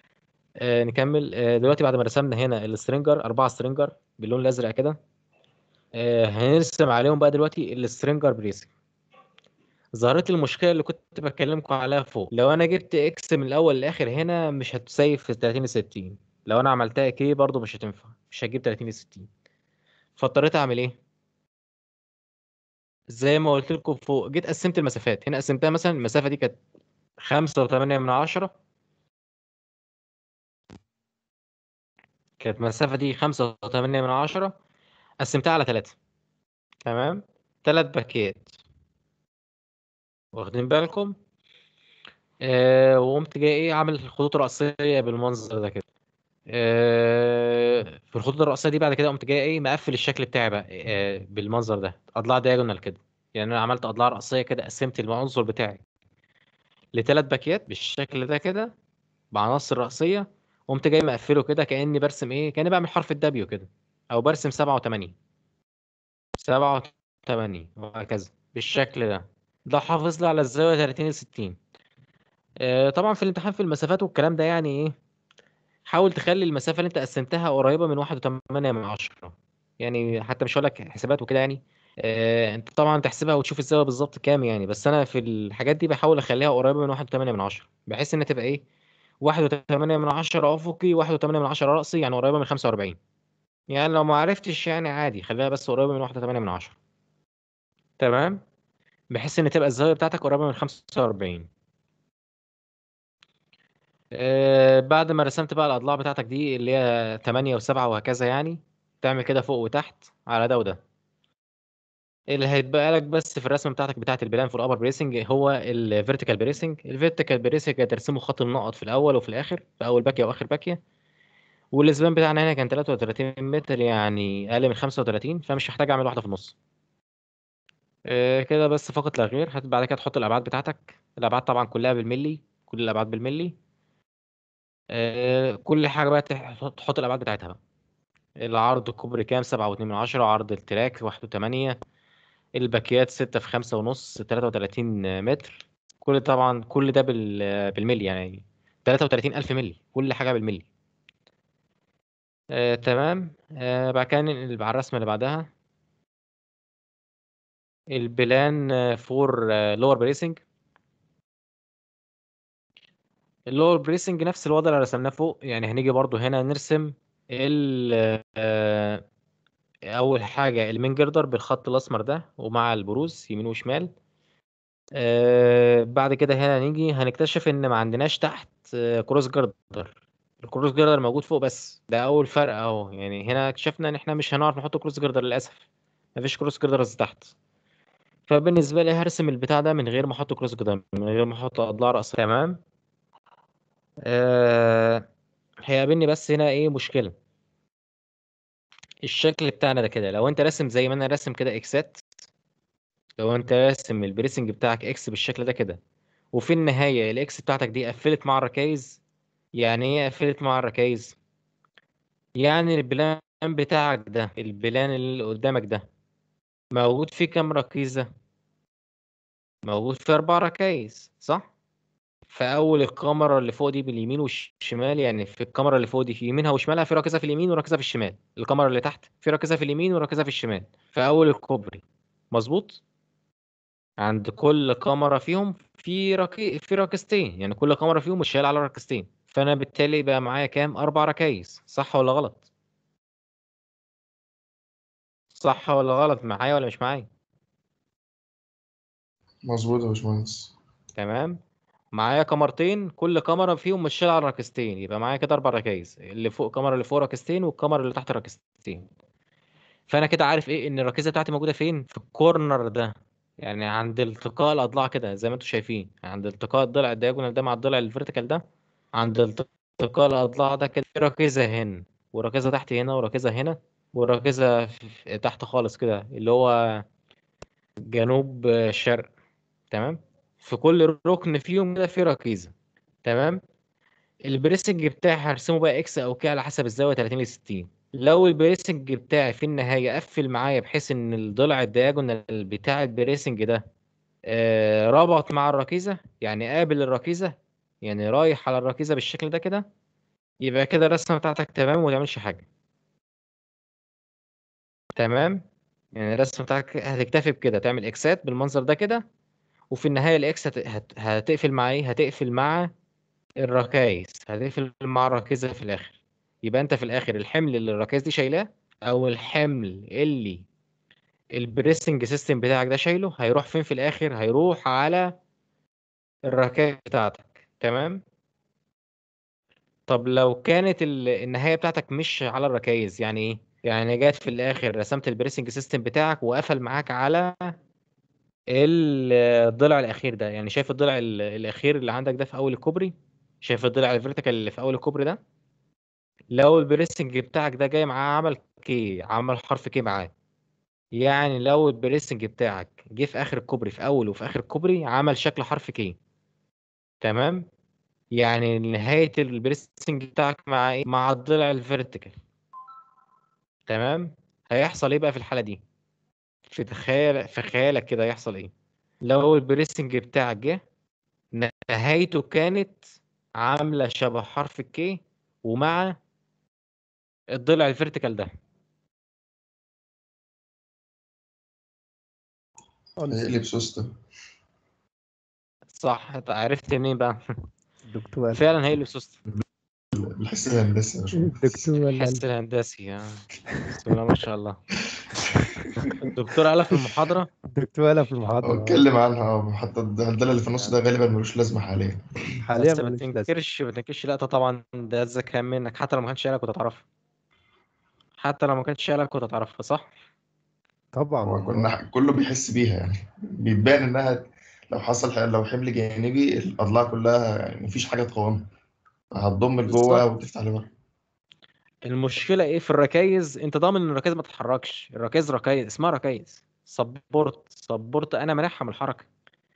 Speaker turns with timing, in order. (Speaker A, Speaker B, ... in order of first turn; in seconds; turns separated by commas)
Speaker A: 0.6-5.0, Speaker A: 6.0-8.7, Speaker A: 10.0-19.3, Speaker A: 20.2-20.9, Speaker A: 23.1-26.6, Speaker A: 27.2-28.5, Speaker A: 32.4-34.5, Speaker A: 35.2-35.9, Speaker A: 36.9-38.5, Speaker A: 40.4-41.1, Speaker A: 42.4-45.8, Speaker A: 46.5-55.8, Speaker A: 56.9-58.7, Speaker A: 59.3-65.1, Speaker A: 66.4-71.6, Speaker A: 72.6-74.9, Speaker A: 75.9-88.6, Speaker A: 89.2-93.0, Speaker A: 93.7-96.7, Speaker A: 98.0-98.4, Speaker A: 99.1-101.5, Speaker A: 104.2-110.8, Speaker A: 112.3-120.8, Speaker A: 121.7-126.5, Speaker A: 128.1-133.5, Speaker A: 134.9-137.6, Speaker A: 138.4-141.8, Speaker A: 142.6-150.7, Speaker A: 152.5-155.5, Speaker A: 157.9-160.4, Speaker A: 163.5-169.0, Speaker A: 169.9-173.9, Speaker A: 175.0-179.9, Speaker A: 180.4-185.6, Speaker A: 186.2-187.3, Speaker A: 188.3-192.6, Speaker A: 194.1-195.0, Speaker A: 195.7-197.1, Speaker A: 199.0-202.0, Speaker A: 203.2-205.8, Speaker A: 206.3-209.0, Speaker A: 209.6-211.2, Speaker A: 212.4-215.8, Speaker A: 216.7-218.1, Speaker A: 219.7-221.4, Speaker A: 222.3-232.8, Speaker A: 234.0-242.4, Speaker A: 245.3-247.1, Speaker B: 249.4-250.5, Speaker A: 250.9-251.4, Speaker A: 251.9-258.9, Speaker A: 259.9-268.4, Speaker A: 268.9-276.8, Speaker A: 277.9-279.1, Speaker A: 279.7-282.5, Speaker A: 283.0-283.4, Speaker A: 284.3-293.6, Speaker A: 294.3-299.6, Speaker A: 300.4-302.4, Speaker A: 304.9-305.4, Speaker A: 305.9-309.0, Speaker A: 309.7-312.7, Speaker A: 313.4-320.4, Speaker A: 321.4-325.1, Speaker A: 326.3-328.0, Speaker A: 329.9-337.5, Speaker A: 338.5-345.2, Speaker A: 346.3-350.1, Speaker A: 350.9-355.9, Speaker A: 357.0-357.4, Speaker A: 358.1-362.1, Speaker A: 363.7-365.6, Speaker A: 366.5-368.5, Speaker A: 369.0-370.6, Speaker A: 371.3-372.9, Speaker A: 373.4-375.9, Speaker A: 377.3-378.3, Speaker C: 383.0-383.4, Speaker B: 383.1-383.9, Speaker A: 385.8-387.2, Speaker C: 387.9-388.4, Speaker A: 388.3-389.2, Speaker B: 389.9-391.7, Speaker C: 391.2-392.2, Speaker A: 391.9-393.2, Speaker A: 393.7-394.6, Speaker A: 396.0-397.3, Speaker C: 397.6-398.8, Speaker B: 398.4-402.1, Speaker C: 402.4-403.3, Speaker A: 402.6-406.8, Speaker A: 408.2-409.9, Speaker C: 410.9-411.7, Speaker B: 411.2-418.5, Speaker B: 419.1-420.7, Speaker A: 419.7-420.0, Speaker A: 421.9-429.1